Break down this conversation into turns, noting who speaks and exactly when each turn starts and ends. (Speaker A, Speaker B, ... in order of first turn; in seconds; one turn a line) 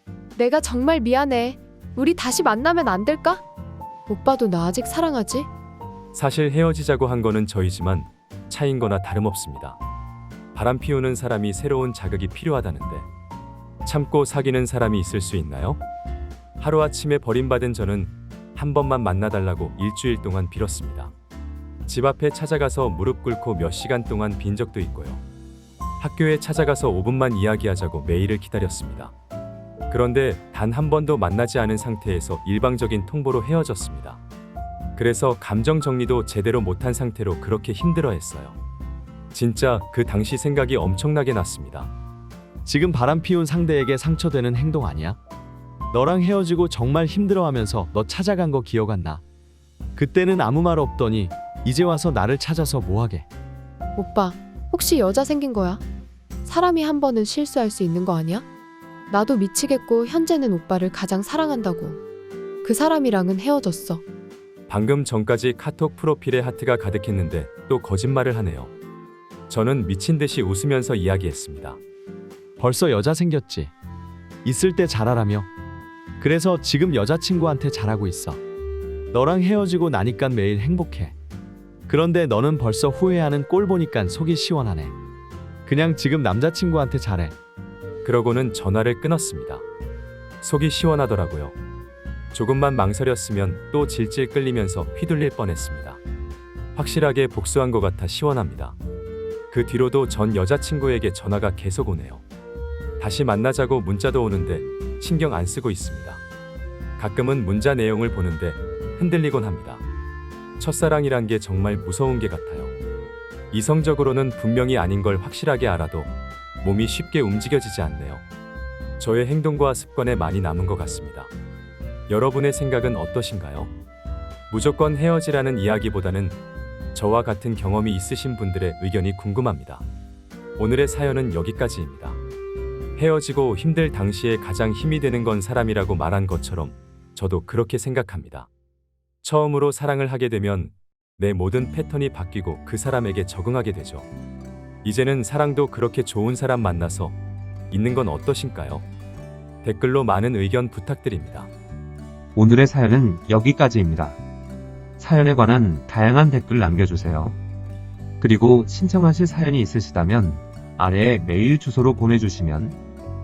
Speaker A: 0.3-3.4
Speaker A: 4.1-5.5
Speaker B: 6.1-9.8
Speaker B: 10.5-13.1
Speaker B: 13.8-15.8
Speaker B: 16.6-21.1
Speaker B: 21.9-25.2
Speaker B: 26.0-29.1
Speaker B: 29.9-34.2
Speaker B: 35.0-38.6
Speaker B: 39.3-41.9
Speaker C: 42.6-45.2
Speaker C: 45.9-49.2
Speaker C: 50.0-53.3
Speaker A: 54.0-55.8
Speaker A: 56.4-58.5
Speaker A: 59.1-62.0
Speaker A: 62.6-64.0
Speaker B: 64.7-68.7
Speaker B: 69.5-71.8
Speaker C: 72.6-73.7
Speaker C: 74.4-75.5
Speaker C: 76.2-78.4
Speaker C: 79.1-81.2
Speaker C: 81.9-84.9
Speaker C: 85.7-87.3
Speaker B: 88.0-89.6
Speaker B: 90.4-91.5
Speaker B: 92.3-96.0
Speaker B: 96.7-98.8
Speaker B: 99.5-102.2
Speaker B: 103.0-106.2
Speaker B: 107.0-109.8
Speaker B: 110.6-112.7
Speaker B: 113.5-118.2
Speaker B: 119.0-121.3
Speaker B: 122.1-123.7
Speaker B: 124.5-126.4
Speaker B: 126.9-129.8
Speaker B: 130.6-132.2
Speaker B: 133.0-138.5
Speaker B: 139.2-144.1
Speaker B: 144.8-147.2
Speaker B: 147.7-148.8
Speaker B: 149.6-151.5
Speaker D: 152.3-154.2
Speaker D: 155.0-157.4
Speaker D: 158.2-162.8